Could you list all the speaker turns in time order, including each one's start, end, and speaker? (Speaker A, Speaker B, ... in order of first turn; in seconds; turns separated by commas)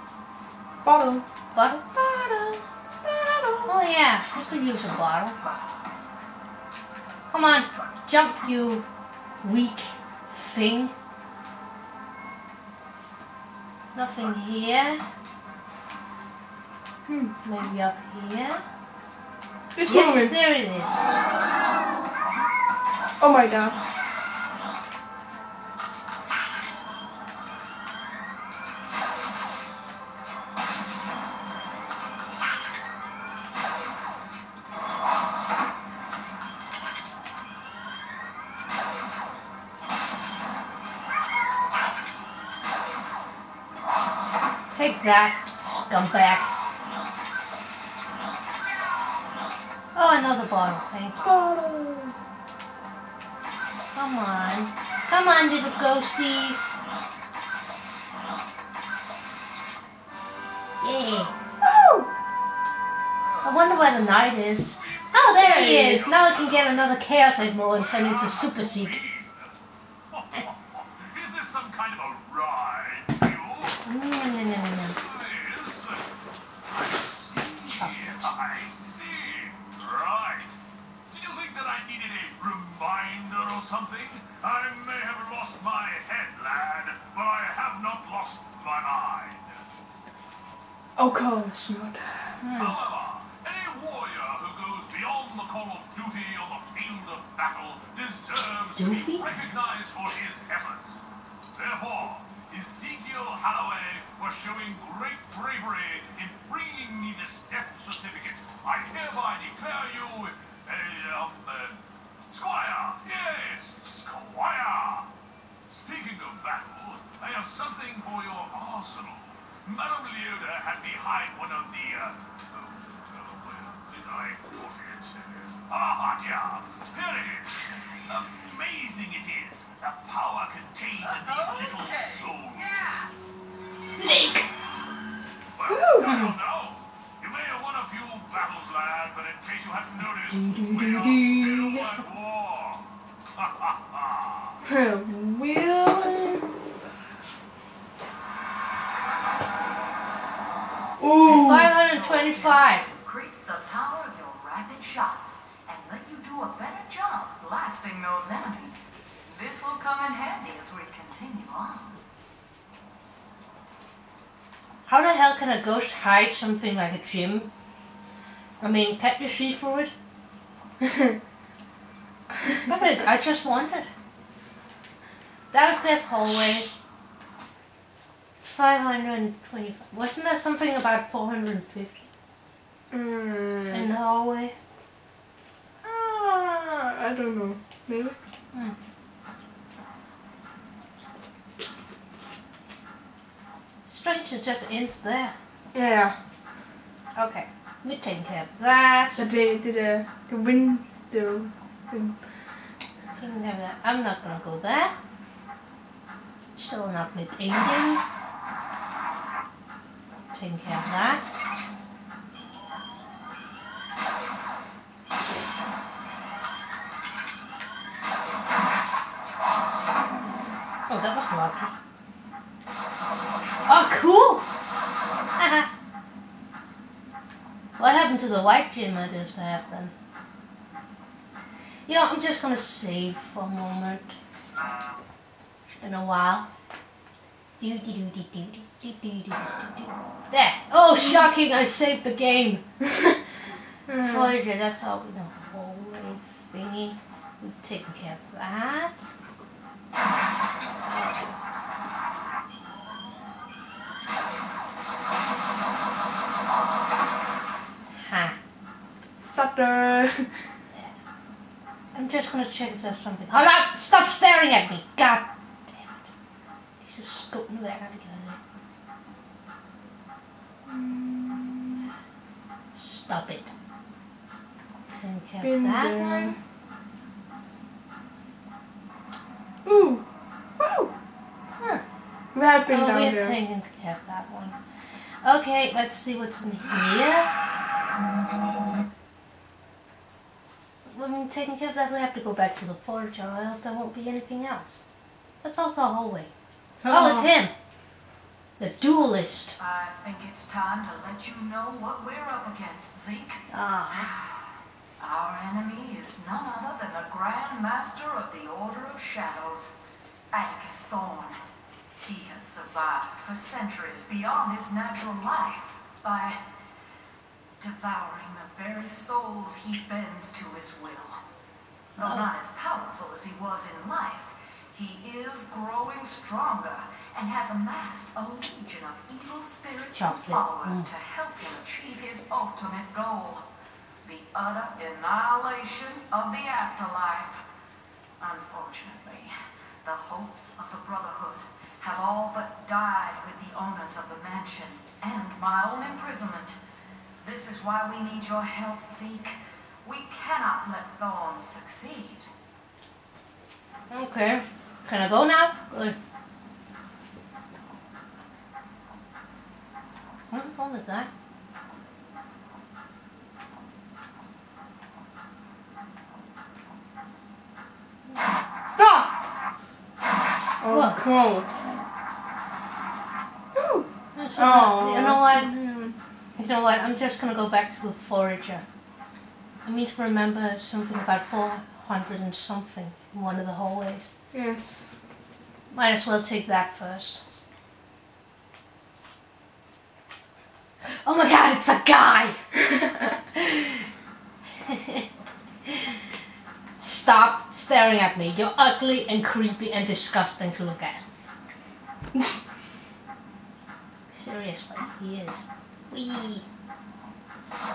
Speaker A: 0.8-1.2, Speaker B: 1.5-1.9, Speaker A: 1.9-3.7, Speaker B: 3.7-5.4, Speaker B: 7.3-8.8, Speaker B: 9.4-10.9, Speaker B: 13.9-15.0, Speaker A: 17.1-17.3, Speaker B: 17.4-18.6, Speaker A: 19.8-20.3, Speaker B: 19.9-21.0, Speaker A: 23.2-23.8, Speaker B: 44.7-46.5, Speaker B: 50.0-51.3, Speaker A: 51.2-52.1, Speaker B: 54.0-56.8, Speaker B: 60.8-61.3, Speaker A: 61.6-62.1, Speaker B: 63.4-69.0, Speaker C: 64.7-66.8, Speaker A: 65.6-66.1, Speaker C: 67.7-69.5, Speaker C: 70.1-73.8, Speaker B: 73.8-75.0, Speaker C: 74.9-76.0, Speaker C: 76.7-80.6, Speaker C: 81.1-89.6, Speaker A: 91.0-92.4, Speaker B: 92.4-92.8, Speaker C: 92.6-101.0, Speaker B: 98.8-99.3, Speaker C: 101.5-115.1, Speaker C: 115.7-133.3, Speaker B: 134.0-134.5, Speaker C: 135.6-144.6, Speaker A: 135.7-136.2, Speaker B: 136.1-136.3, Speaker A: 140.4-141.8, Speaker A: 144.7-146.5, Speaker A: 151.0-151.7, Speaker B: 151.2-152.8, Speaker D: 151.3-162.0, Speaker B: 164.9-167.5, Speaker B: 168.6-169.9, Speaker A: 170.8-171.2, Speaker B: 172.6-173.9, Speaker B: 175.5-176.7, Speaker B: 178.4-182.1, Speaker A: 182.9-183.9, Speaker B: 183.7-184.5, Speaker A: 185.8-188.2, Speaker B: 193.9-195.3, Speaker A: 195.7-196.2, Speaker B: 197.2-199.3, Speaker A: 199.2-202.2, Speaker B: 203.2-204.9, Speaker B: 206.6-208.0, Speaker B: 210.3-211.3, Speaker B: 220.9-221.7, Speaker B: 223.7-224.5, Speaker B: 225.4-225.7, Speaker B: 227.8-229.9, Speaker B: 231.9-234.1, Speaker B: 235.8-236.5, Speaker B: 237.6-242.6, Speaker A: 241.0-241.3, Speaker A: 243.9-244.3, Speaker B: 244.0-249.0, Speaker B: 250.8-251.2, Speaker B: 257.9-258.4, Speaker A: 259.2-260.4, Speaker B: 261.9-265.9, Speaker B: 266.8-268.4, Speaker A: 270.7-271.9, Speaker B: 272.8-273.5, Speaker B: 274.9-276.4, Speaker A: 275.4-276.4, Speaker A: 279.6-280.0, Speaker A: 280.6-280.9, Speaker A: 282.3-283.4, Speaker B: 282.7-284.6, Speaker B: 285.2-287.3, Speaker B: 290.9-294.8, Speaker B: 295.4-296.3, Speaker A: 296.8-297.3, Speaker B: 296.9-297.5, Speaker B: 298.6-299.6, Speaker D: 299.6-309.8, Speaker B: 303.5-304.1, Speaker D: 310.3-311.4, Speaker D: 312.0-316.4, Speaker D: 317.6-321.2, Speaker D: 322.0-333.5, Speaker B: 322.0-322.2, Speaker B: 329.9-330.9, Speaker D: 334.0-337.5, Speaker D: 338.2-339.3, Speaker D: 339.8-346.6, Speaker D: 347.2-352.3, Speaker B: 353.9-356.0, Speaker B: 360.3-361.1, Speaker A: 368.8-369.1, Speaker A: 370.6-371.8, Speaker B: 370.7-371.0, Speaker A: 373.6-376.0, Speaker B: 374.1-375.5, Speaker B: 376.4-378.6, Speaker B: 379.6-384.1, Speaker A: 384.3-384.9, Speaker B: 385.7-387.2, Speaker B: 390.9-392.4, Speaker B: 393.4-393.9, Speaker B: 394.6-395.1, Speaker B: 396.8-401.0, Speaker B: 404.1-406.4